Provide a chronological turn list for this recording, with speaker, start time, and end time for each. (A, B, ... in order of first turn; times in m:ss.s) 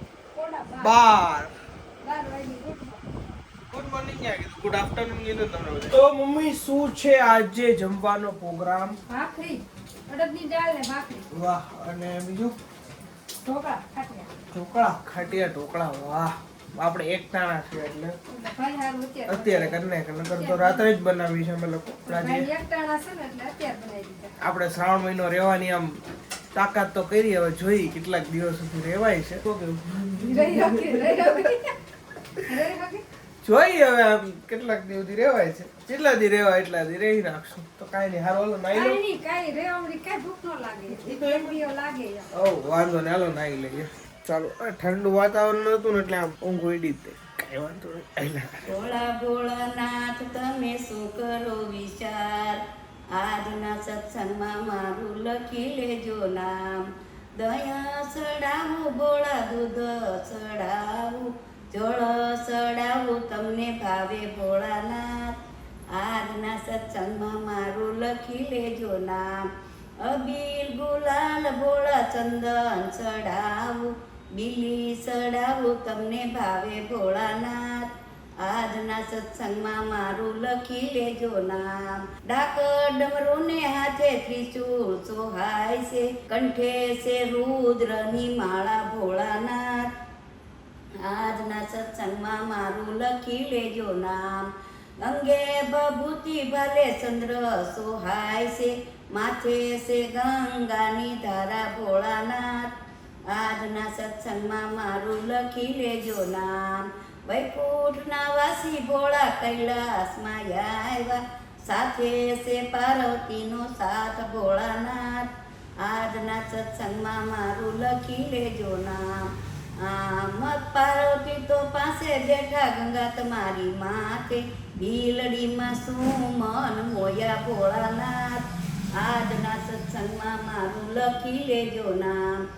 0:00.3-0:01.0 A
0:00.8-0:01.5 B
0:02.0-0:03.0 A
0:03.7-0:09.0 B
0:09.1-0:11.3 A
0:11.3-0:12.6 B
0:13.4-0:14.3 A
0:14.5-0:18.2 B
0:18.3-0:20.9 A
0:19.3-0:22.5 B
0:22.0-0:24.3 A
0:24.4-0:26.0 B
0:26.5-0:31.6 B
0:30.2-0:31.7 A
0:32.5-0:33.0 A
0:33.4-0:39.0 B
0:38.7-0:42.3 A
0:40.9-0:41.5 B
0:42.4-0:48.6 B
0:48.7-0:52.6 C
0:53.1-1:05.4 C
1:05.9-1:09.5 C
1:10.0-1:17.9 C
1:18.4-1:29.9 C
1:31.0-1:34.5 C
1:35.0-1:42.7 C
1:43.3-1:55.3 C
1:55.8-1:59.3 C
1:59.8-2:08.4 C
2:09.0-2:12.4 C